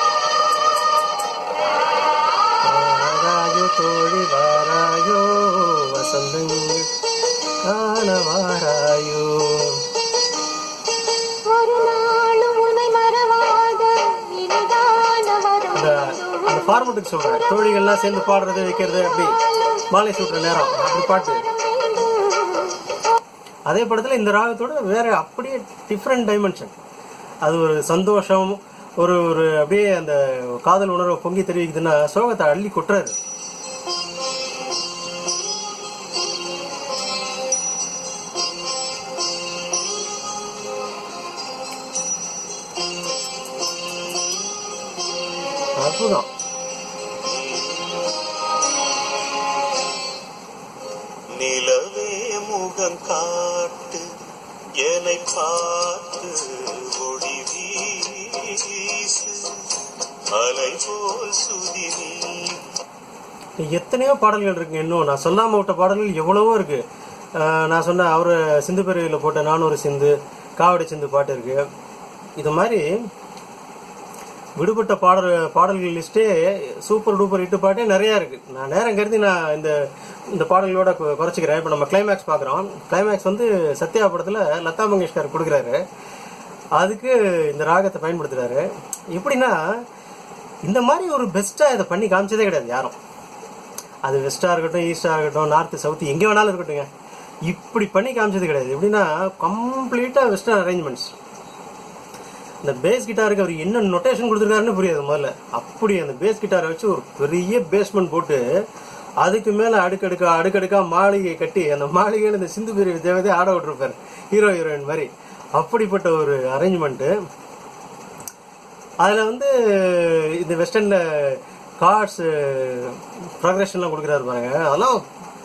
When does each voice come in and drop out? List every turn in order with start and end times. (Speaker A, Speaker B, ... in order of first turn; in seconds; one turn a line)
Speaker A: 2.6-6.9
Speaker A: 7.6-9.8
Speaker B: 11.3-16.3
Speaker A: 15.7-19.4
Speaker A: 19.9-21.4
Speaker B: 21.9-22.7
Speaker A: 23.7-26.7
Speaker A: 27.4-33.2
Speaker A: 45.8-46.3
Speaker C: 47.4-47.7
Speaker C: 51.3-54.1
Speaker C: 54.8-59.7
Speaker C: 60.3-62.6
Speaker A: 63.6-66.8
Speaker A: 67.4-71.6
Speaker A: 72.4-72.8
Speaker A: 74.6-79.8
Speaker A: 80.3-85.8
Speaker A: 86.8-89.6
Speaker A: 90.6-93.0
Speaker A: 94.1-96.9
Speaker A: 97.5-101.1
Speaker A: 102.6-108.4
Speaker A: 109.2-117.1
Speaker A: 119.0-125.0